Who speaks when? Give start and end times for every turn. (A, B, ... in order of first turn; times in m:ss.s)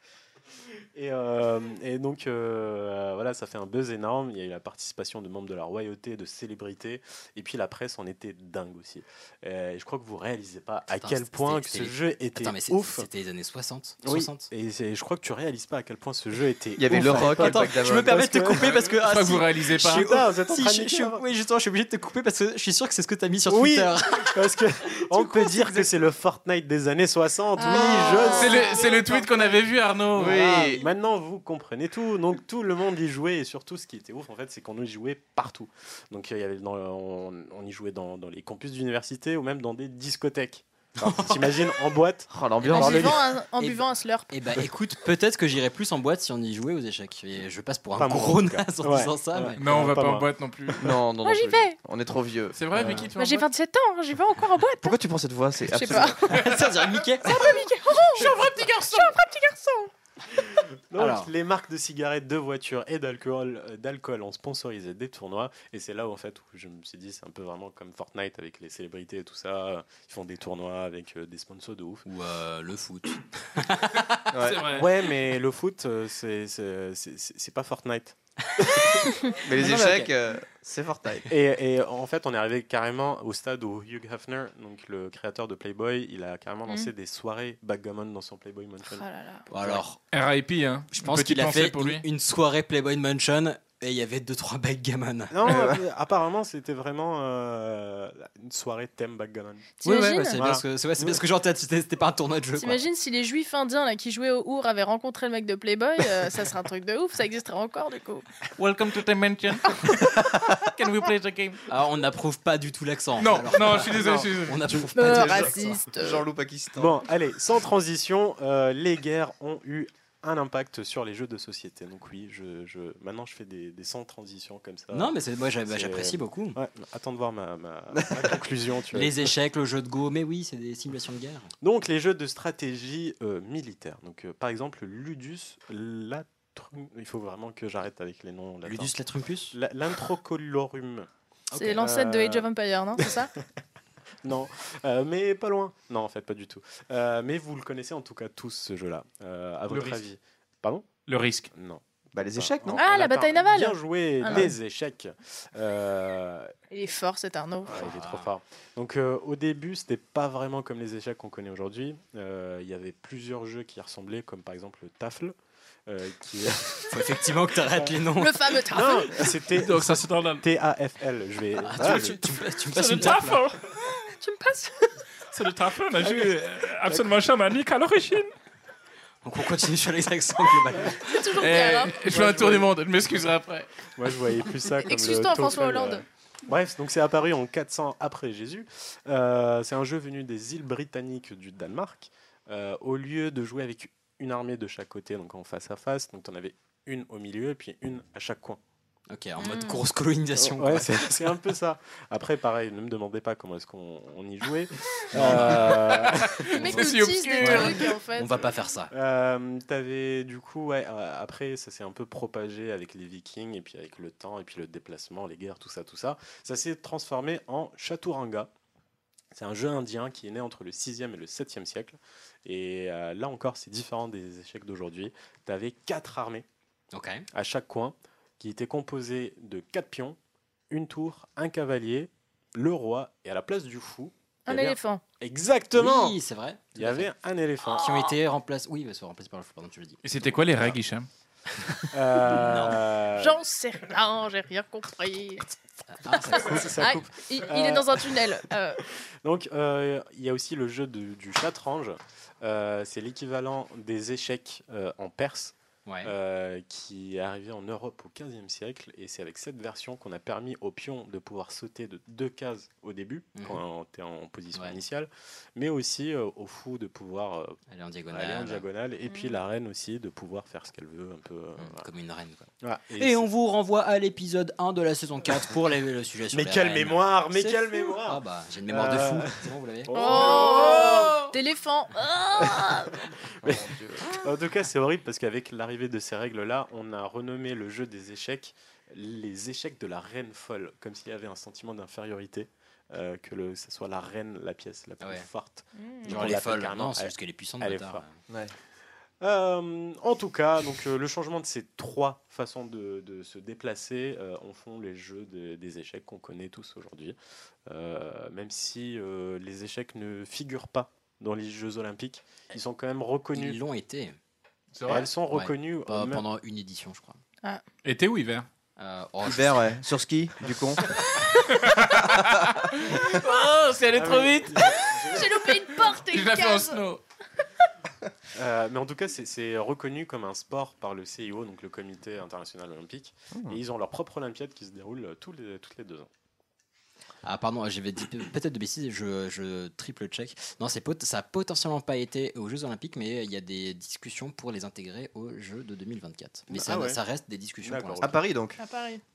0:00.9-0:13.1 A
0:10.9-0:14.5 B
0:14.0-0:18.7 A
0:16.8-0:18.3 C
0:16.9-0:24.3 B
0:18.6-0:20.0 D
0:19.8-0:21.2 A
0:23.5-0:29.6 A
0:25.2-0:25.7 B
0:27.6-0:28.9 E
0:28.3-0:30.4 D
0:30.1-0:30.8 C
0:30.2-0:43.3 A
0:30.4-0:30.8 B
0:41.0-0:41.7 B
0:42.3-0:43.2 C
0:42.6-0:43.0 B
0:42.7-0:44.3 E
0:44.3-0:49.6 B
0:47.9-0:50.3 A
0:49.6-0:50.8 D
0:50.8-0:52.9 C
0:51.2-0:51.8 E
0:52.5-0:53.5 D
0:52.8-0:53.1 B
0:53.2-0:54.9 E
0:54.8-0:56.3 C
0:55.6-0:56.3 E
0:56.1-0:57.4 B
0:56.3-0:57.1 D
0:57.2-0:59.9 E
0:58.1-0:59.1 D
1:00.4-1:12.0 A
1:00.9-1:01.3 B
1:12.0-1:14.2 B
1:14.3-1:14.6 C
1:14.4-1:14.9 D
1:14.7-1:18.2 A
1:19.4-1:21.3 C
1:19.5-1:20.1 B
1:21.3-1:29.8 A
1:28.9-1:29.5 E
1:29.5-1:30.0 B
1:30.1-1:32.0 D
1:30.9-1:35.6 B
1:35.3-1:39.7 A
1:35.4-1:35.8 C
1:39.8-1:40.4 E
1:39.8-1:42.8 B
1:40.3-1:41.2 A
1:42.6-1:48.2 E
1:48.6-1:49.8 D
1:50.7-1:51.6 D
1:51.7-1:55.8 B
1:53.2-1:54.8 D
1:54.9-1:56.2 E
1:55.0-1:57.1 C
1:56.7-2:05.1 A
2:04.9-2:06.6 B
2:05.7-2:09.3 A
2:08.9-2:11.5 B
2:11.6-2:18.9 A
2:18.6-2:19.6 B
2:19.5-2:21.1 A
2:21.5-2:21.8 B
2:21.5-2:23.3 E
2:21.8-2:22.5 A
2:24.2-2:30.9 A
2:29.7-2:30.0 D
2:31.1-2:31.5 D
2:31.5-2:36.5 A
2:32.1-2:32.8 C
2:32.7-2:34.5 E
2:36.7-2:37.8 E
2:37.7-2:45.3 A
2:37.7-2:38.3 B
2:45.9-2:48.0 A
2:46.9-2:48.5 B
2:48.1-2:49.3 E
2:48.7-2:52.2 A
2:49.6-2:50.4 D
2:51.6-2:53.4 B
2:51.8-2:52.1 C
2:52.7-2:53.6 D
2:54.0-2:55.0 E
2:55.3-2:58.3 D
2:56.0-2:56.3 A
2:59.2-3:01.4 B
3:01.0-3:02.0 E
3:01.4-3:03.7 D
3:02.0-3:02.7 A
3:04.0-3:18.6 A
3:04.8-3:06.0 E
3:19.1-3:21.2 B
3:19.4-3:19.8 E
3:20.4-3:26.5 A
3:25.1-3:27.9 D
3:25.2-3:25.7 B
3:26.5-3:28.4 E
3:26.6-3:26.8 B
3:27.4-3:28.9 B
3:28.9-3:38.5 A
3:39.3-3:46.4 A
3:46.9-3:47.3 B
3:47.3-3:50.2 A
3:50.7-3:56.2 A
3:54.5-3:55.0 E
3:55.7-3:57.1 B
3:56.7-3:57.9 A
3:57.7-4:00.0 B
3:57.7-3:58.0 E
4:00.0-4:01.1 D
4:01.9-4:03.4 A
4:02.2-4:02.8 B
4:03.2-4:05.4 E
4:05.9-4:07.0 B
4:06.1-4:08.2 A
4:06.8-4:08.8 E
4:09.2-4:27.6 A
4:15.8-4:16.1 B
4:23.3-4:23.6 B
4:27.7-4:28.6 B
4:28.1-4:31.8 A
4:29.1-4:29.4 E
4:31.6-4:41.1 B
4:32.6-4:33.2 A
4:36.3-4:41.3 A
4:39.9-4:43.0 E
4:42.4-4:58.0 A
4:43.4-4:44.0 C
4:55.0-4:55.3 B
4:55.8-4:56.3 E
4:56.0-4:58.2 B
4:59.2-5:13.6 A
5:13.3-5:14.1 B
5:14.7-5:15.1 D
5:14.8-5:16.2 A
5:15.3-5:17.2 B
5:17.8-5:18.5 D
5:18.8-5:19.8 B
5:19.2-5:20.8 C
5:21.5-5:24.6 D
5:24.0-5:25.4 A
5:25.1-5:26.8 E
5:26.0-5:27.0 D
5:28.3-5:36.1 A
5:37.2-5:48.1 B
5:46.5-5:47.0 A
5:47.6-5:48.2 A
5:48.0-5:48.6 C
5:48.6-5:49.0 E